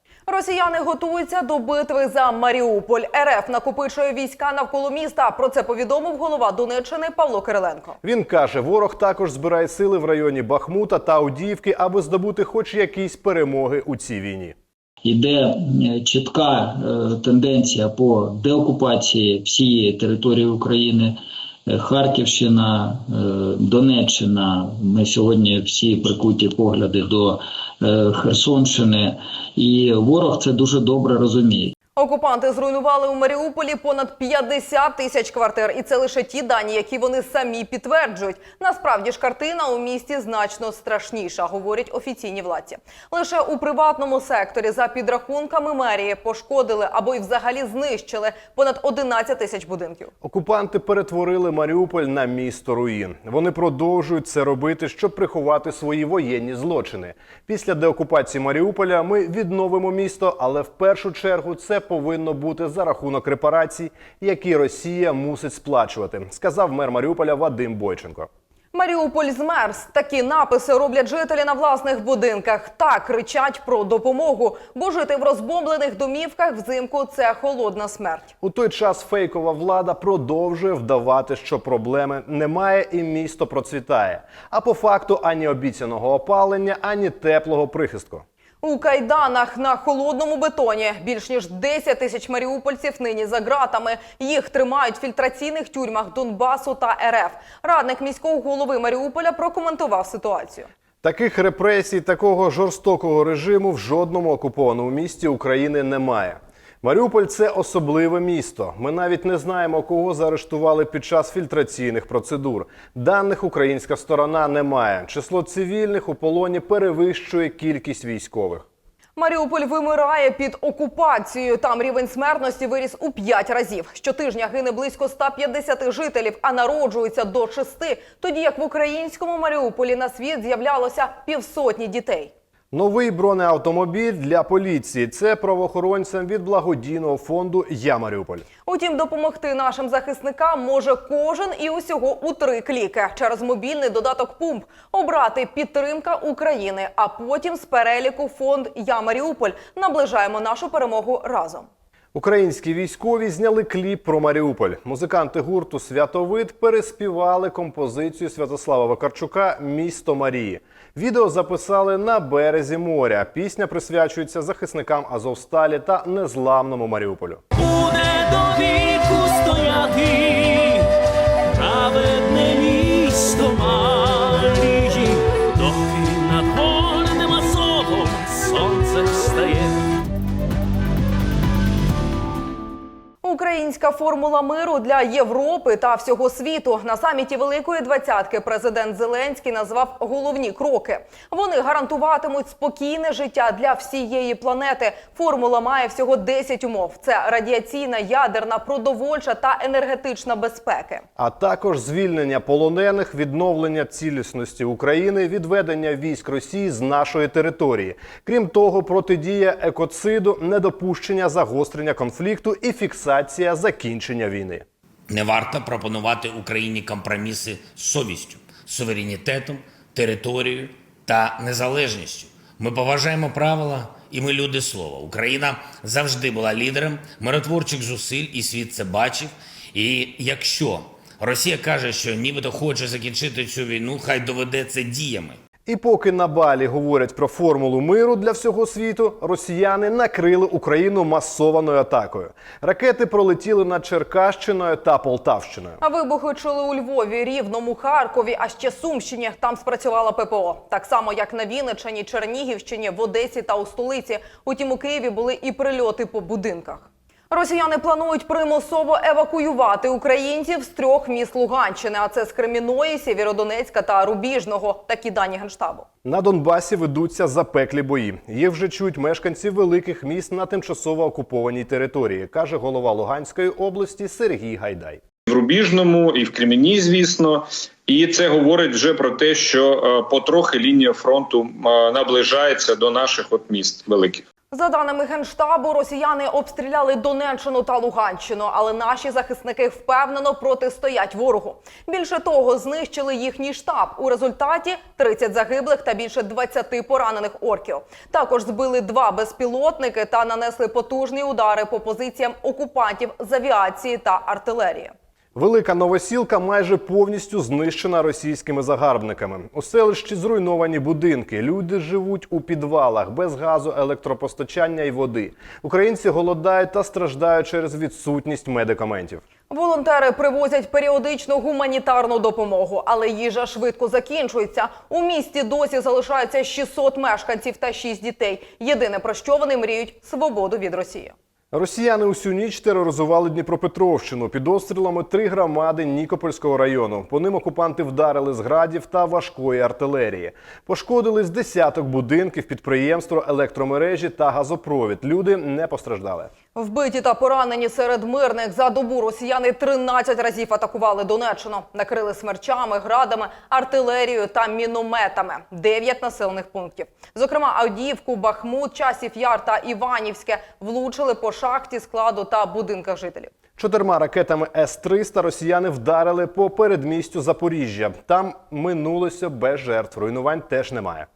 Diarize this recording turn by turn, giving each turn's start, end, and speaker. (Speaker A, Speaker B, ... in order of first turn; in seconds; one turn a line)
Speaker A: 0.3-8.0
Speaker B: 8.0-14.6
Speaker C: 15.0-31.7
Speaker A: 32.0-50.1
Speaker B: 50.2-68.3
Speaker A: 68.7-78.3
Speaker B: 78.4-88.2
Speaker A: 88.6-100.7
Speaker B: 101.0-118.7
Speaker A: 119.2-132.3
Speaker B: 132.7-138.5
Speaker A: 138.7-151.7
Speaker B: 152.1-167.4
Speaker D: 167.6-170.9
Speaker D: 171.5-179.8
Speaker A: 183.2-201.1
Speaker B: 201.2-214.7
Speaker E: 215.1-235.4
Speaker B: 235.7-245.8
Speaker A: 245.8-265.9
Speaker B: 266.1-275.0
Speaker F: 275.3-284.2
Speaker A: 284.5-304.9
Speaker B: 305.4-319.2
Speaker A: 319.5-331.1
Speaker B: 331.5-346.3
Speaker A: 346.6-363.3
Speaker B: 363.6-371.1